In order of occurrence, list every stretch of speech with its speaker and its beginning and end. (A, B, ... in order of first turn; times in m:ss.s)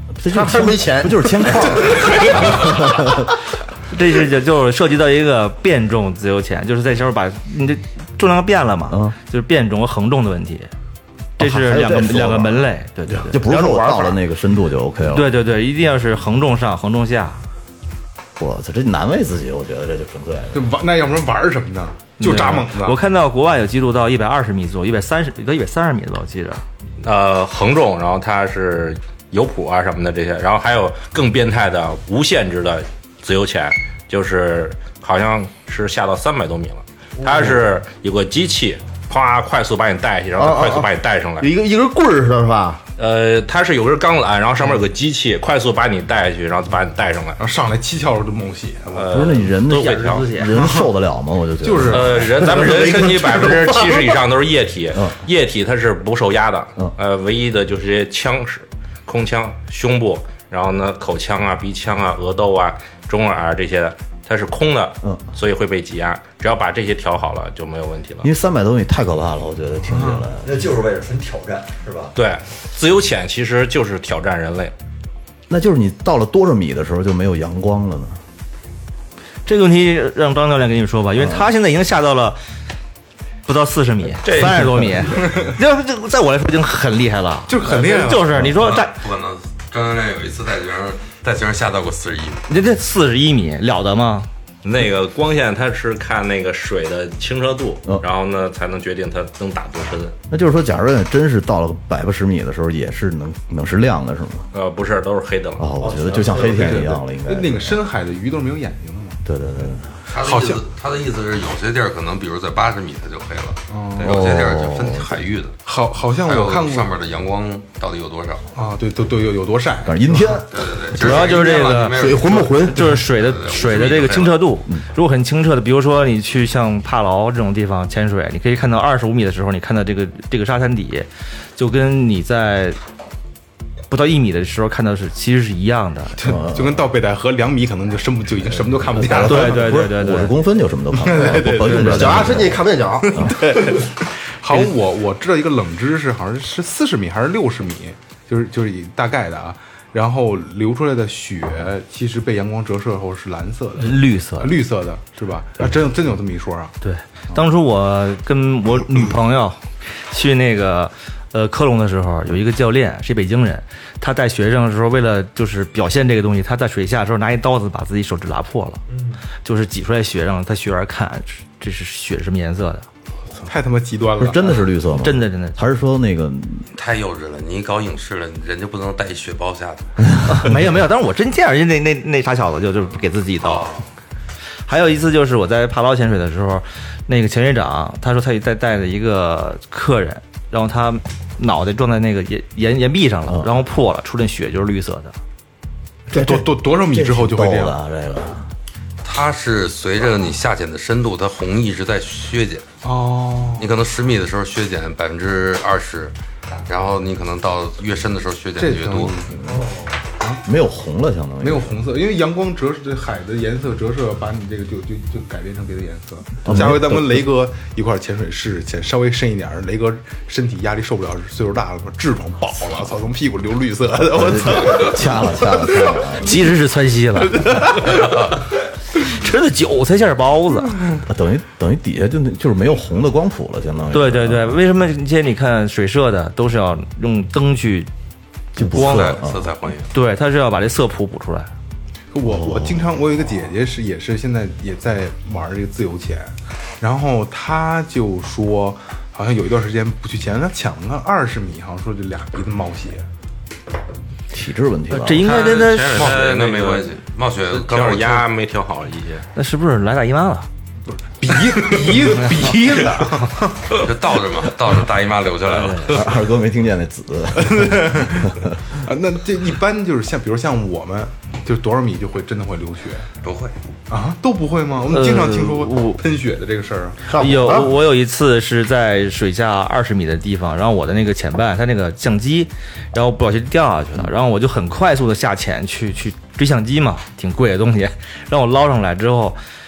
0:00.2-0:03.3 A
0:00.3-0:01.7 B
0:02.0-0:02.5 C
0:03.9-0:10.7 D
0:08.9-0:09.2 A
0:11.4-0:13.4 D
0:11.4-0:12.6 A
0:13.3-0:15.3 A
0:13.4-0:14.2 B
0:15.1-0:17.4 D
0:18.4-0:20.6 A
0:20.5-0:23.0 C
0:22.2-0:26.6 D
0:27.0-0:41.5 E
0:40.4-0:40.9 B
0:41.4-0:42.8 B
0:43.0-0:47.4 E
0:47.4-0:49.3 C
0:48.9-0:50.3 E
0:49.1-0:52.6 A
0:49.7-0:50.5 D
0:50.5-0:50.9 C
0:51.6-0:53.4 C
0:51.9-1:08.3 E
1:08.2-1:10.5 A
1:09.9-1:10.3 C
1:10.4-1:12.1 F
1:12.1-1:14.7 E
1:15.5-1:18.2 A
1:19.4-1:22.4 D
1:21.2-1:21.4 A
1:23.4-1:29.0 D
1:27.5-1:28.5 C
1:28.6-1:32.4 G
1:32.5-1:34.3 D
1:34.6-1:40.1 E
1:40.3-1:44.5 A
1:44.5-1:45.7 E
1:45.6-1:47.8 A
1:45.8-1:46.6 F
1:46.0-1:49.2 C
1:49.2-1:49.9 A
1:50.1-1:55.6 G
1:50.1-1:50.6 C
1:53.7-1:54.3 C
1:54.0-1:55.2 A
1:55.6-1:57.0 C
1:56.2-1:58.5 G
1:58.5-2:00.4 C
1:59.8-2:01.2 A
2:00.5-2:04.5 G
2:01.0-2:02.0 D
2:02.0-2:02.9 B
2:02.7-2:12.8 D
2:13.9-2:16.2 D
2:16.2-2:19.8 C
2:16.2-2:16.9 A
2:18.9-2:22.5 A
2:19.1-2:20.3 D
2:20.9-2:22.4 C
2:21.6-2:22.3 D
2:21.9-2:23.2 B
2:23.0-2:36.7 C
2:33.8-2:34.6 D
2:36.8-2:48.8 D
2:49.4-2:52.9 D
2:53.4-2:54.6 C
2:54.2-2:56.7 A
2:55.0-2:55.6 D
2:56.7-2:59.9 G
3:00.2-3:03.7 D
3:03.4-3:03.8 G
3:04.7-3:15.2 D
3:16.1-3:17.8 C
3:16.1-3:18.5 A
3:19.0-3:22.7 G
3:22.8-3:23.7 C
3:23.6-3:29.1 G
3:28.6-3:30.4 C
3:30.4-3:31.8 A
3:31.4-3:46.1 C
3:36.4-3:37.3 A
3:44.1-3:46.4 A
3:46.2-3:48.2 D
3:49.0-3:50.8 D
3:51.0-3:54.6 A
3:53.9-3:57.9 D
3:58.6-3:59.5 A
3:58.7-3:59.9 G
3:58.7-3:59.2 D
3:59.9-4:01.5 D
4:02.1-4:13.0 C
4:02.2-4:02.9 A
4:14.3-4:15.2 A
4:14.9-4:16.2 D
4:15.2-4:17.0 E
4:15.2-4:18.3 G
4:17.5-4:19.2 E
4:19.3-4:20.5 D
4:20.9-4:23.8 C
4:23.8-4:26.1 G
4:25.5-4:25.8 D
4:25.8-4:28.5 A
4:27.4-4:33.1 C
4:33.2-4:33.5 G
4:33.9-4:37.1 C
4:34.9-4:36.0 D
4:37.0-4:37.7 B
4:37.2-4:49.4 D